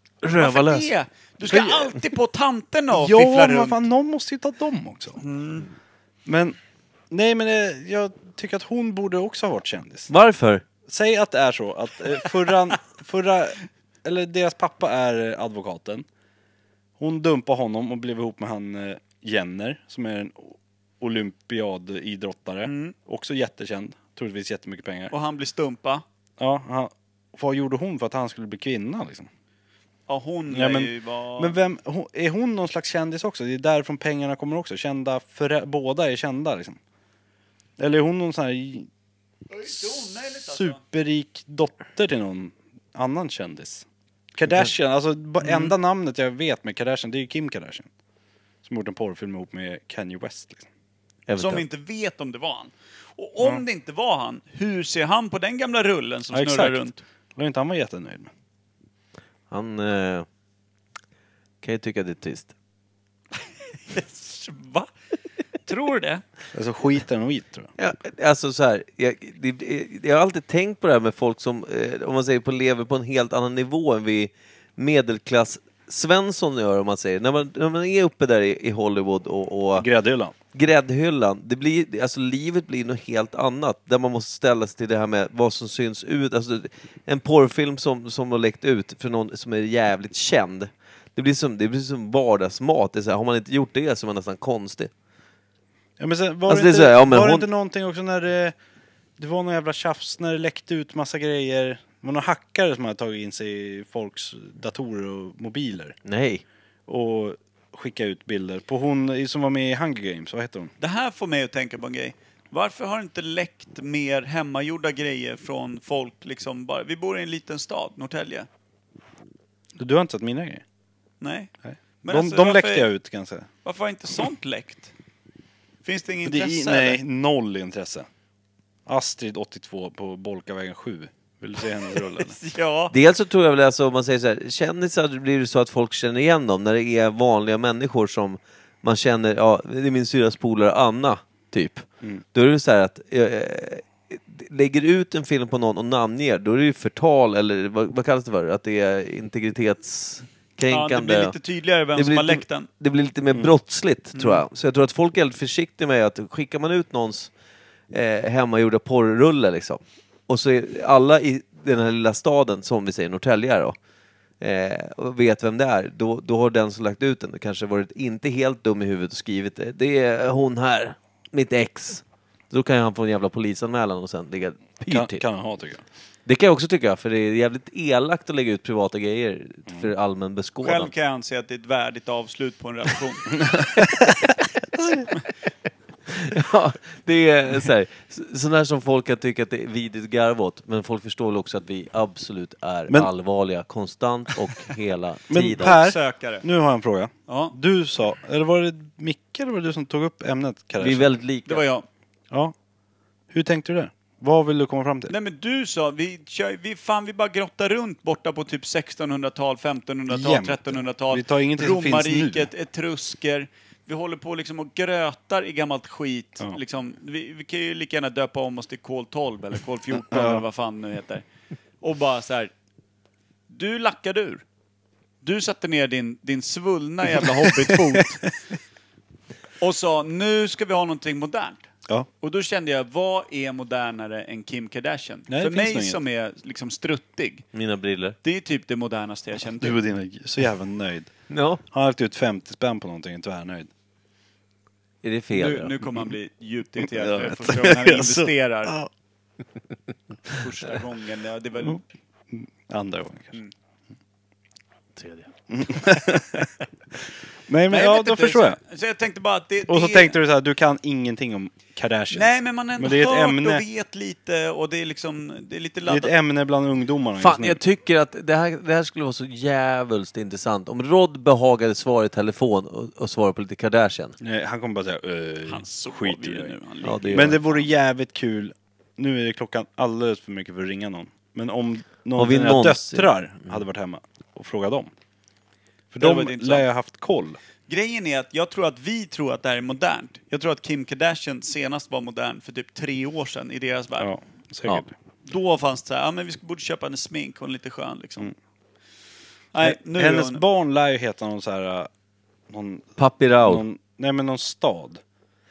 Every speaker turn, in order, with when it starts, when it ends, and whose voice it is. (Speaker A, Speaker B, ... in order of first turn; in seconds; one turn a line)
Speaker A: 0.2-0.9
Speaker B: 0.3-3.9
Speaker C: 1.5-2.0
Speaker C: 2.9-5.2
Speaker B: 5.2-5.7
Speaker C: 6.3-6.6
Speaker C: 7.1-10.1
Speaker A: 10.1-10.7
Speaker C: 10.9-16.1
Speaker C: 17.0-25.1
Speaker B: 22.6-22.9
Speaker B: 25.1-26.0
Speaker C: 26.4-29.3
Speaker B: 30.1-31.6
Speaker C: 30.5-36.8
Speaker C: 37.8-38.9
Speaker B: 39.5-40.8
Speaker C: 39.7-43.9
Speaker C: 44.4-47.9
Speaker B: 45.4-45.7
Speaker C: 48.6-50.7
Speaker A: 51.3-51.6
Speaker B: 51.4-57.0
Speaker C: 56.3-56.9
Speaker C: 57.4-58.3
Speaker A: 59.5-60.3
Speaker A: 61.6-62.5
Speaker B: 63.9-64.9
Speaker B: 65.7-66.2
Speaker C: 66.5-67.7
Speaker A: 67.8-79.9
Speaker C: 79.8-80.3
Speaker A: 80.5-94.9
Speaker C: 96.0-98.5
Speaker A: 96.5-97.5
Speaker C: 99.2-106.0
Speaker A: 106.0-106.4
Speaker C: 106.9-110.7
Speaker B: 110.8-118.5
Speaker C: 119.8-120.6
Speaker B: 121.2-121.5
Speaker C: 121.7-123.5
Speaker B: 122.0-122.9
Speaker B: 123.6-124.9
Speaker B: 125.8-127.0
Speaker C: 126.2-128.1
Speaker C: 128.9-132.4
Speaker B: 132.2-132.9
Speaker A: 132.9-151.3
Speaker B: 150.7-152.7
Speaker A: 151.9-157.3
Speaker B: 154.2-154.4
Speaker A: 157.9-163.8
Speaker A: 164.4-175.2
Speaker C: 174.9-175.8
Speaker A: 176.3-180.9
Speaker B: 180.6-183.2
Speaker C: 183.4-184.3
Speaker A: 186.1-195.8
Speaker C: 195.3-201.1
Speaker B: 195.6-196.4
Speaker B: 197.3-197.6
Speaker A: 200.8-201.6
Speaker B: 201.5-201.9
Speaker C: 203.3-205.1
Speaker B: 205.1-221.2
Speaker C: 210.1-212.5
Speaker C: 220.1-220.4
Speaker B: 221.8-222.5
Speaker B: 223.5-224.4
Speaker B: 225.2-228.2
Speaker C: 227.2-228.2
Speaker B: 229.6-231.6
Speaker B: 232.2-237.5
Speaker C: 235.3-236.0
Speaker A: 237.5-238.2
Speaker B: 238.2-239.8
Speaker C: 239.6-241.1
Speaker A: 241.3-241.6
Speaker C: 241.7-243.7
Speaker A: 245.0-245.8
Speaker B: 245.3-248.8
Speaker C: 246.9-248.9
Speaker B: 250.3-251.8
Speaker C: 252.3-253.4
Speaker A: 255.0-255.3
Speaker C: 255.5-256.5
Speaker C: 257.5-258.6
Speaker B: 257.7-260.2
Speaker C: 259.7-263.6
Speaker B: 262.1-266.1
Speaker C: 265.9-267.6
Speaker A: 267.2-274.2
Speaker C: 274.2-276.6
Speaker B: 275.5-277.6
Speaker A: 276.8-277.4
Speaker C: 277.1-284.9
Speaker A: 282.2-283.5
Speaker C: 285.9-287.4
Speaker B: 286.0-286.7
Speaker B: 287.7-294.1
Speaker C: 294.0-294.9
Speaker B: 295.3-298.3
Speaker B: 299.5-300.4
Speaker C: 299.6-301.9
Speaker C: 302.5-302.9
Speaker A: 303.0-303.6
Speaker C: 303.4-305.0